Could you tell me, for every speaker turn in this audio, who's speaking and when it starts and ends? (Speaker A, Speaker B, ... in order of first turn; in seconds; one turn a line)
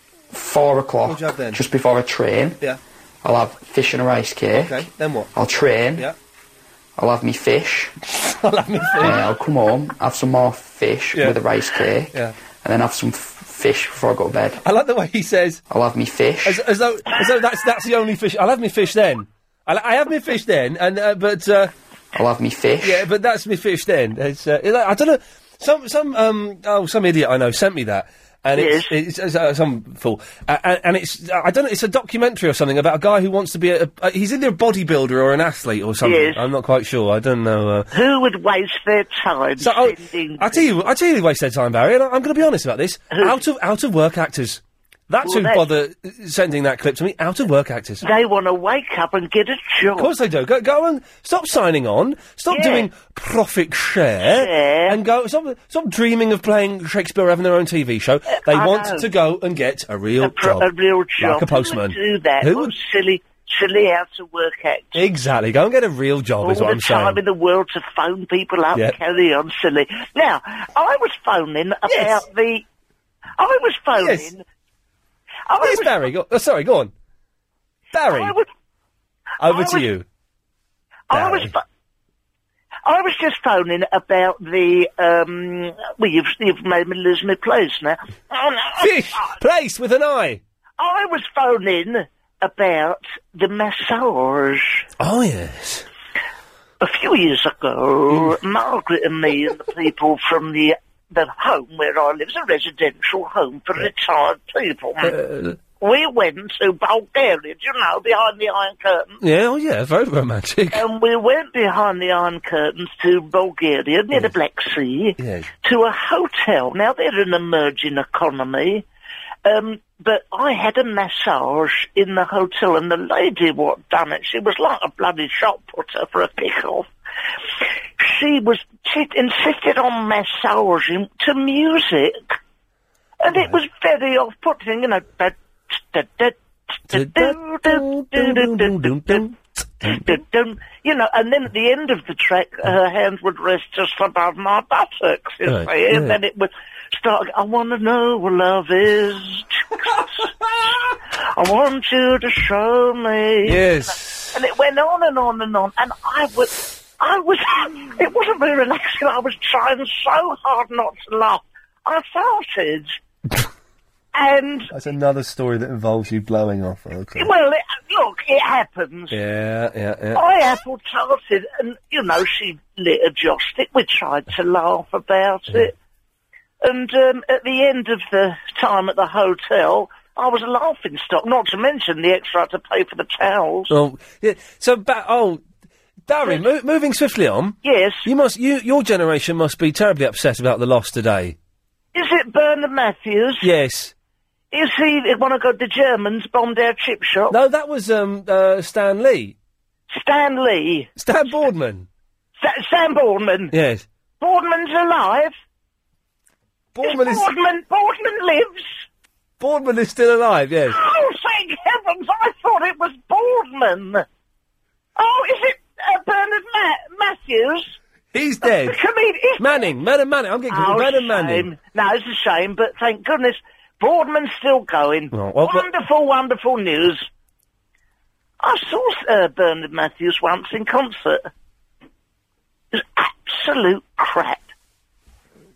Speaker A: 0.3-2.6
Speaker B: 1.1-1.6
Speaker A: 3.2-6.1
Speaker B: 4.5-5.3
Speaker A: 7.0-7.9
Speaker B: 8.2-9.3
Speaker A: 9.0-14.6
Speaker B: 11.1-11.4
Speaker B: 14.6-15.6
Speaker A: 15.7-16.6
Speaker B: 16.4-21.7
Speaker A: 22.1-23.1
Speaker B: 22.8-37.9
Speaker C: 28.6-28.9
Speaker C: 36.0-36.5
Speaker C: 37.9-40.7
Speaker B: 39.6-48.1
Speaker C: 43.1-43.4
Speaker C: 45.2-45.7
Speaker C: 48.0-50.1
Speaker B: 50.0-60.7
Speaker C: 52.5-52.9
Speaker C: 54.2-55.0
Speaker C: 58.3-59.1
Speaker C: 60.2-65.0
Speaker B: 61.2-62.7
Speaker B: 65.0-67.2
Speaker C: 66.4-72.7
Speaker B: 71.9-72.2
Speaker C: 73.4-74.4
Speaker B: 74.0-74.3
Speaker C: 75.5-76.0
Speaker B: 75.6-76.9
Speaker B: 77.9-78.4
Speaker C: 78.1-78.5
Speaker B: 79.4-80.0
Speaker C: 79.5-79.9
Speaker C: 81.1-81.6
Speaker B: 81.1-81.5
Speaker C: 82.9-89.3
Speaker B: 88.8-90.4
Speaker C: 90.8-94.8
Speaker B: 95.0-95.9
Speaker C: 96.8-105.2
Speaker B: 105.0-105.6
Speaker C: 105.8-109.1
Speaker B: 109.2-110.8
Speaker C: 110.7-118.8
Speaker B: 115.2-115.5
Speaker C: 119.5-126.9
Speaker C: 128.0-132.2
Speaker C: 133.2-135.3
Speaker C: 135.9-136.3
Speaker C: 136.9-139.3
Speaker B: 136.9-140.2
Speaker C: 139.8-150.3
Speaker B: 145.5-146.2
Speaker C: 151.3-163.0
Speaker B: 153.4-154.4
Speaker C: 164.1-164.7
Speaker B: 164.7-167.3
Speaker C: 167.2-169.2
Speaker B: 169.1-170.2
Speaker C: 170.2-175.7
Speaker C: 176.6-183.7
Speaker B: 183.7-185.4
Speaker B: 186.1-191.4
Speaker C: 187.6-188.1
Speaker C: 191.9-193.5
Speaker B: 193.4-193.9
Speaker C: 194.5-197.4
Speaker B: 197.3-199.4
Speaker C: 199.9-200.9
Speaker B: 201.0-201.9
Speaker C: 202.4-203.5
Speaker B: 203.5-203.8
Speaker C: 204.2-205.3
Speaker B: 206.8-207.3
Speaker C: 206.8-208.7
Speaker B: 209.4-210.8
Speaker C: 210.7-214.0
Speaker C: 215.0-217.8
Speaker B: 218.1-218.8
Speaker C: 218.4-219.7
Speaker B: 219.4-221.5
Speaker C: 220.5-227.1
Speaker B: 225.1-225.7
Speaker C: 228.4-231.3
Speaker C: 232.7-234.4